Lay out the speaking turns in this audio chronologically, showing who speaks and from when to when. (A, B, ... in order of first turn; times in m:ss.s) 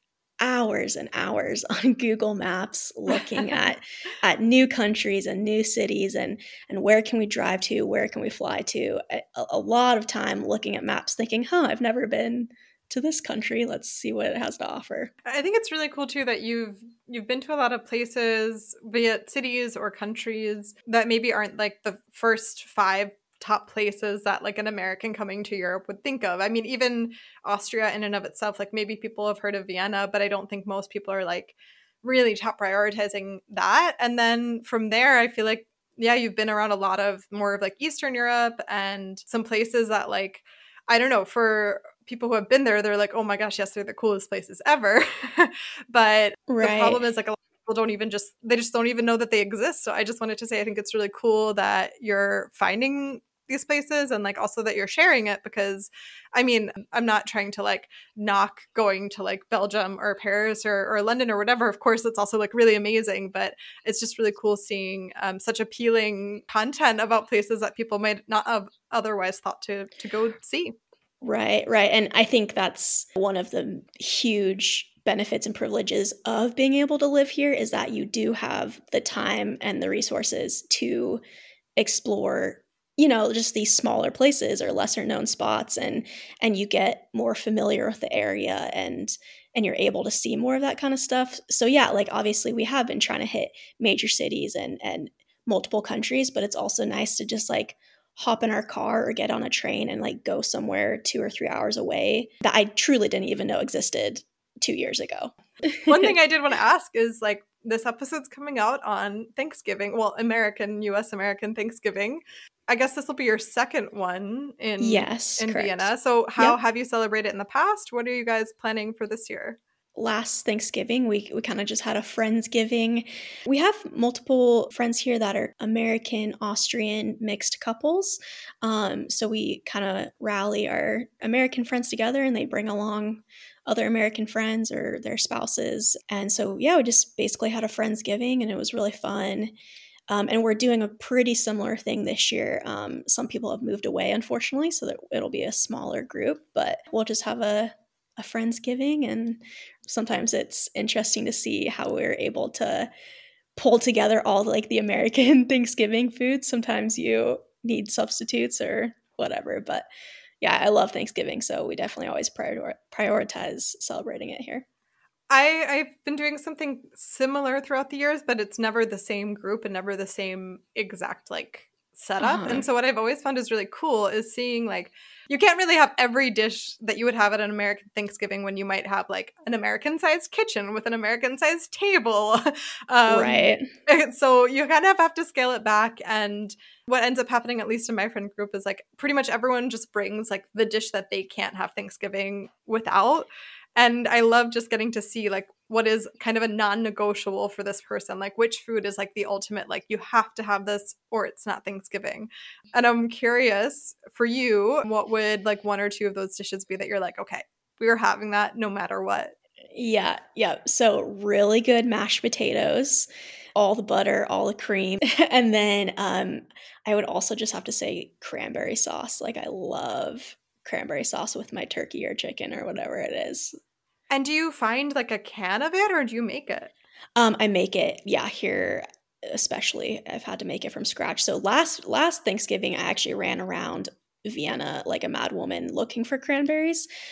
0:00.4-0:15.1 A
0:15.3-1:10.8 B
0:46.5-0:47.0 A
1:11.2-1:21.2 A
1:21.8-1:46.1 A
1:45.9-1:59.6 B
1:54.8-1:56.6 A
2:00.0-2:19.5 A
2:20.1-2:32.9 A
2:33.6-2:39.9 A
2:40.4-2:44.7 A
2:45.3-3:29.3 B
2:52.2-2:52.7 A
3:03.1-3:03.7 A
3:29.7-3:43.5 A
3:44.1-3:46.7 B
3:47.2-3:56.9 A